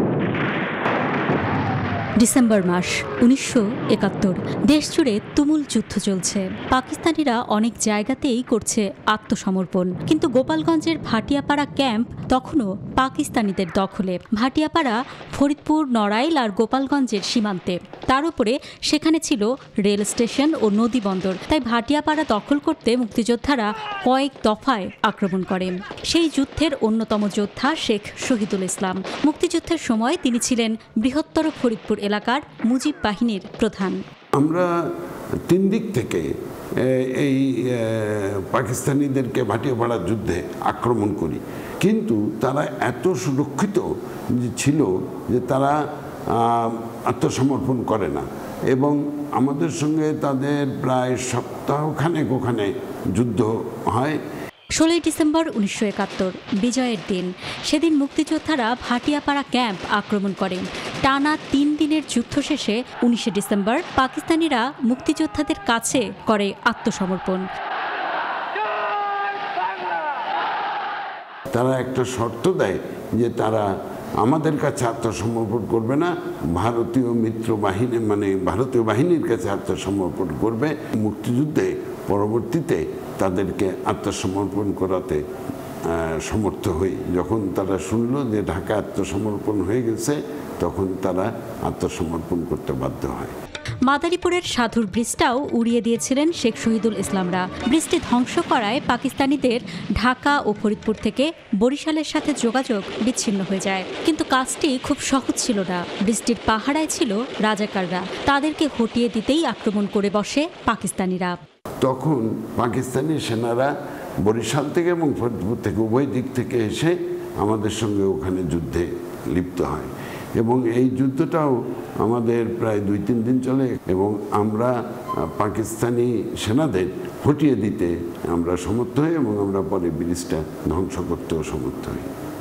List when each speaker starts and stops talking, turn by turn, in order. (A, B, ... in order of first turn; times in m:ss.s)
0:02.2-0:34.0 A
0:34.4-0:34.7 B
0:35.5-0:36.3 B
0:36.8-0:43.8 B
0:44.4-0:45.8 B
0:46.4-0:54.2 B
0:54.8-1:07.5 A
1:11.5-1:13.7 B
1:14.2-1:25.2 B
1:25.9-1:33.3 B
1:33.9-1:51.4 A
1:51.8-1:53.7 B
1:54.2-2:12.1 B